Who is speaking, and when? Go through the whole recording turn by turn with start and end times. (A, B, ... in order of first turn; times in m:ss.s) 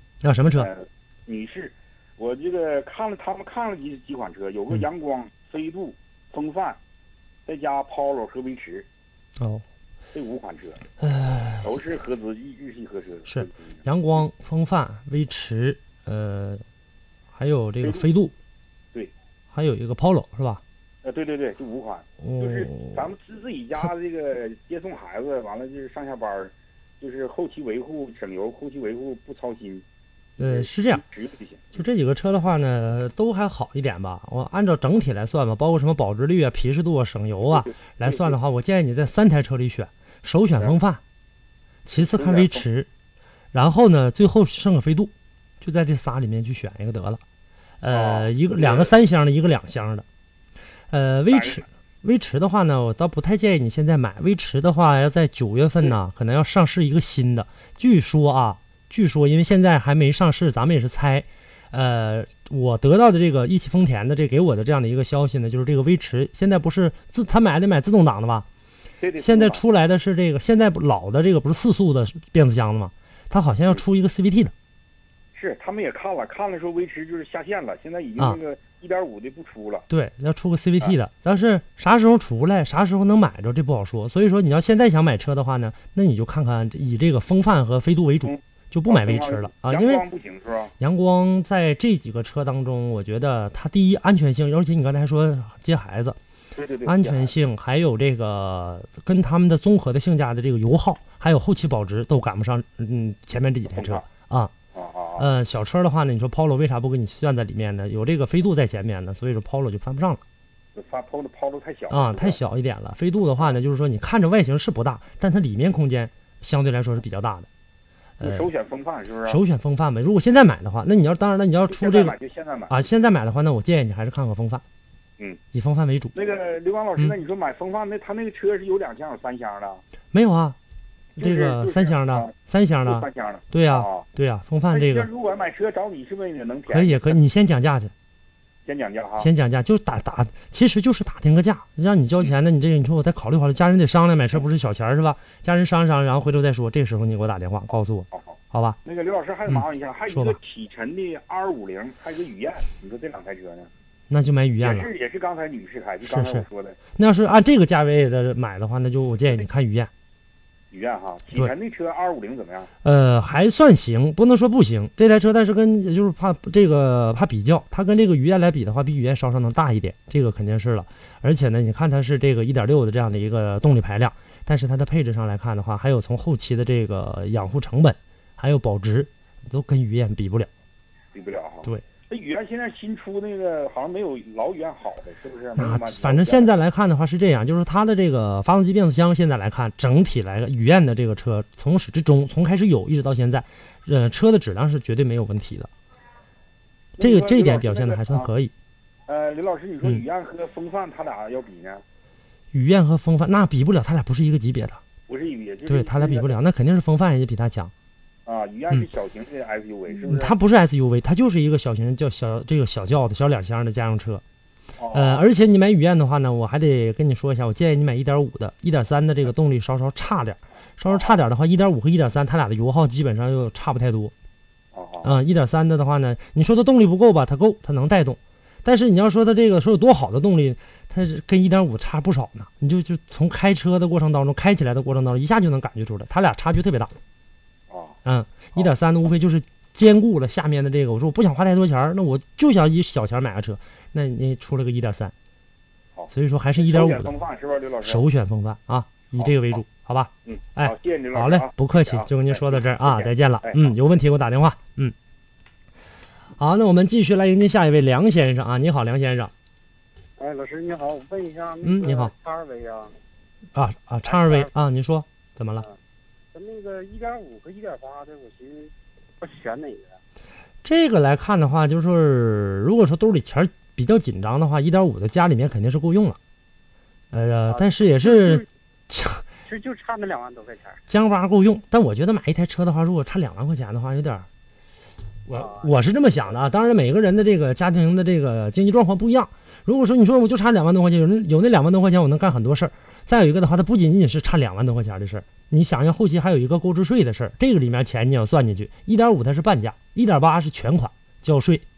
0:00.2-0:00.7 A
0:00.6-0:06.8 B
0:07.4-0:08.9 B
0:09.4-0:09.6 A
0:10.1-0:10.8 B
0:11.0-0:11.7 A
0:11.6-0:13.7 B
0:13.3-0:16.6 A
0:17.3-0:18.3 A
0:17.8-0:18.1 B
0:19.5-0:20.6 A
0:21.0-0:29.8 B
0:22.2-0:23.0 A
0:30.4-0:31.8 B
0:30.4-0:31.0 A
0:31.7-0:41.0 A
0:37.5-0:38.4 B
0:41.8-0:42.9 A
0:42.0-0:42.6 B
0:43.5-0:47.2 A
0:47.8-0:50.0 A
0:47.9-0:48.9 B
0:50.9-1:08.5 A
0:51.3-0:51.6 B
1:09.0-1:09.7 B
1:09.2-1:14.5 A
1:15.3-1:19.8 B
1:19.9-1:30.0 A
1:28.2-1:30.7 B
1:30.8-1:36.2 A
1:36.6-1:37.3 B
1:36.8-1:44.5 A
1:43.7-1:44.0 B
1:44.7-1:45.3 B
1:45.2-1:50.2 A
1:50.7-1:52.4 B
1:51.9-1:57.5 A
1:58.2-1:58.5 A
1:58.2-1:59.4 B
1:59.2-2:02.2 A
2:01.7-2:02.8 B
2:02.7-2:04.6 A
2:05.5-2:06.1 A
2:06.1-2:09.8 B
2:10.1-2:10.6 A
2:11.2-2:15.1 A
2:11.2-2:12.3 B
2:12.8-2:14.1 B
2:14.7-2:17.2 B
2:16.7-2:17.9 A
2:18.6-2:19.3 B
2:19.2-2:28.8 A
2:27.7-2:33.7 B
2:29.5-2:30.4 A
2:34.1-2:34.9 A
2:34.6-2:36.8 B
2:36.0-2:39.9 A
2:40.7-2:42.7 B
2:42.8-3:00.5 A
3:01.1-3:06.5 B
3:05.6-3:15.7 A
3:17.0-3:18.3 B
3:17.0-3:18.5 A
3:19.1-3:21.8 B
3:22.5-3:24.8 A
3:25.1-3:26.4 B
3:25.7-3:27.7 A
3:28.2-3:30.3 B
3:30.0-3:34.2 A
3:34.8-3:35.3 B
3:34.9-3:44.1 A
3:40.9-3:41.2 B
3:44.7-3:45.2 B
3:45.0-3:57.0 A
3:57.7-3:58.0 B
3:58.0-4:05.1 A
4:06.0-4:08.0 B
4:06.1-4:07.1 A
4:07.8-4:14.9 A
4:10.2-4:13.7 B
4:16.4-4:19.3 A
4:20.2-4:22.9 C
4:21.6-4:22.1 A
4:23.5-4:25.6 A
4:24.0-4:24.5 C
4:26.3-4:30.0 C
4:30.6-4:36.2 A
4:37.1-4:39.2 A
4:37.5-4:38.5 C
4:39.4-4:40.8 C
4:40.9-4:44.3 A
4:45.3-5:01.6 A
4:45.3-4:46.4 C